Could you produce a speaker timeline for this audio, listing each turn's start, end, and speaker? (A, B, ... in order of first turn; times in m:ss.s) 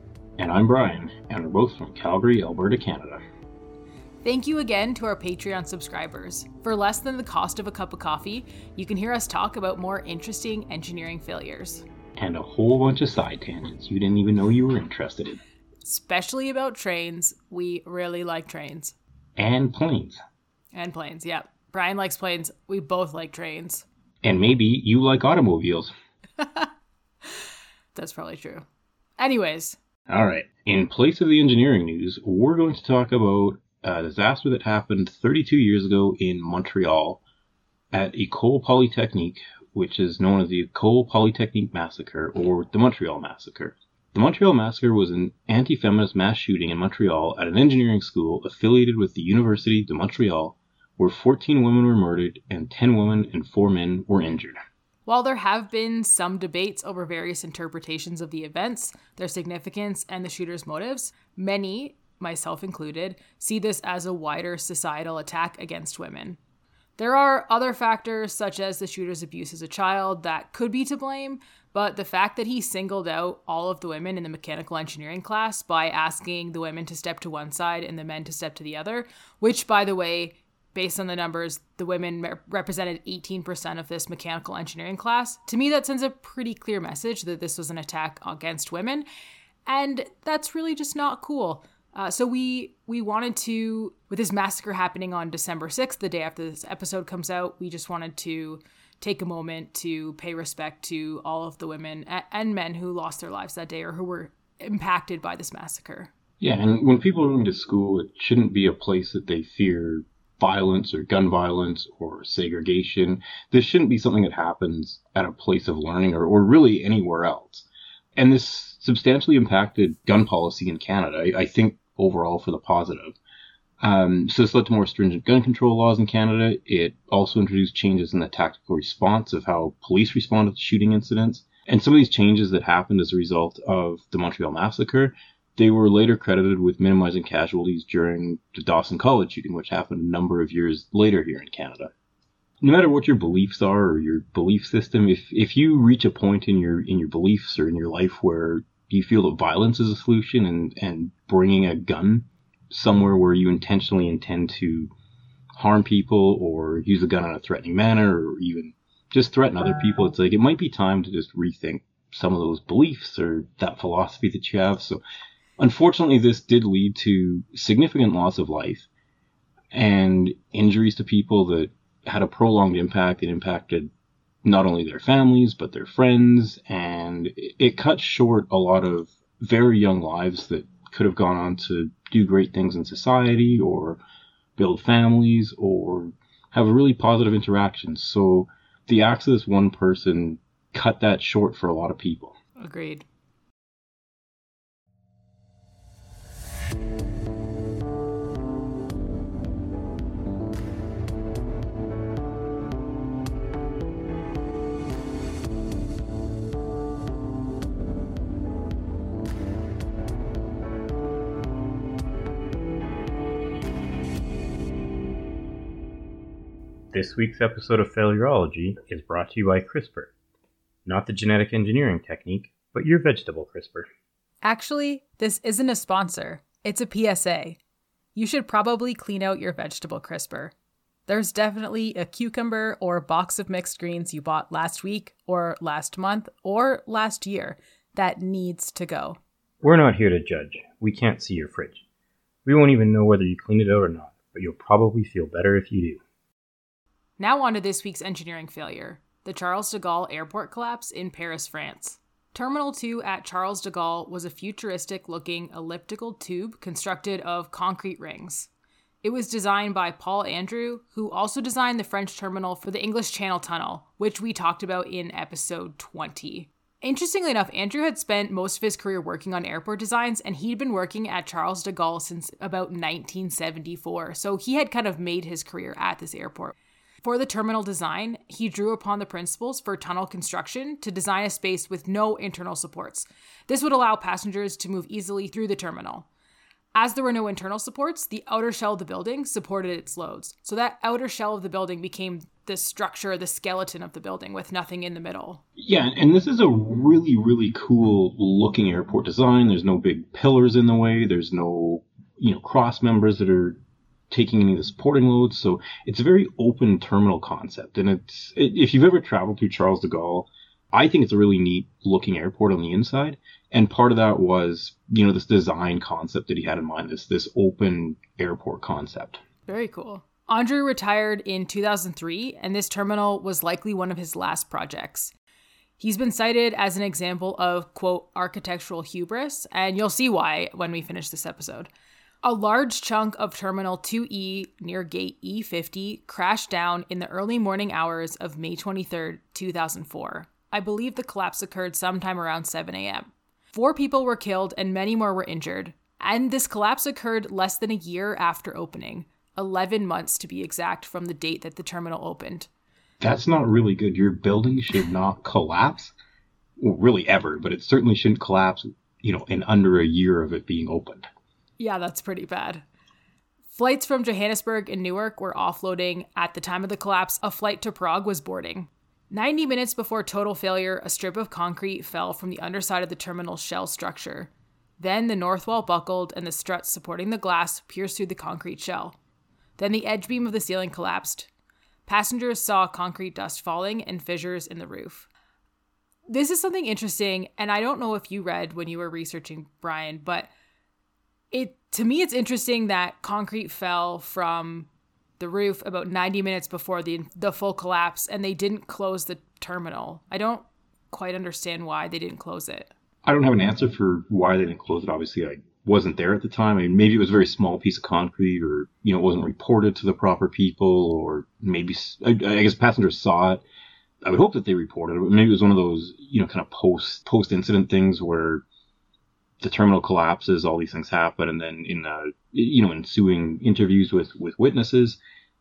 0:00.4-0:03.2 A
0:04.2-0:11.8 B
0:12.2-0:15.4 A
0:15.8-0:19.0 B
0:19.4-0:20.2 A
0:20.7-0:23.9 B
0:24.2-0:25.9 A
0:26.4-0:26.7 B
0:28.0-0:28.6 B
0:29.2-0:29.8 B
0:30.1-0:37.2 A
0:37.9-0:54.6 A
0:55.1-1:06.4 B
1:07.0-1:29.1 B
1:29.7-1:46.1 B
1:46.4-1:57.7 A
1:58.2-2:03.2 A
2:03.8-2:21.9 A
2:22.6-2:34.9 A
2:35.6-2:45.0 A
2:45.6-2:48.9 A
2:49.7-2:53.9 A
2:54.4-3:04.0 A
3:04.6-3:12.4 A
3:12.6-3:13.0 B
3:36.9-3:40.1 A
3:40.8-3:43.9 A
3:44.4-3:47.6 B
3:48.2-3:50.5 B
3:51.1-3:59.2 B
3:59.6-4:01.8 A
4:02.4-4:06.0 A
4:07.2-4:18.5 B
4:19.0-4:46.1 B
4:46.8-4:55.4 B
4:55.6-5:19.2 A
5:19.5-5:25.1 B
5:25.8-5:31.7 B
5:32.2-5:52.5 B
5:53.0-5:55.9 A
5:56.6-6:01.1 A
6:01.6-6:02.6 B
6:03.5-6:19.0 B
6:19.6-6:21.3 B
6:21.9-6:25.1 B
6:26.1-6:30.3 B
6:31.3-6:42.7 B
6:43.0-6:53.4 A
6:54.0-6:58.4 A
6:59.4-7:05.0 A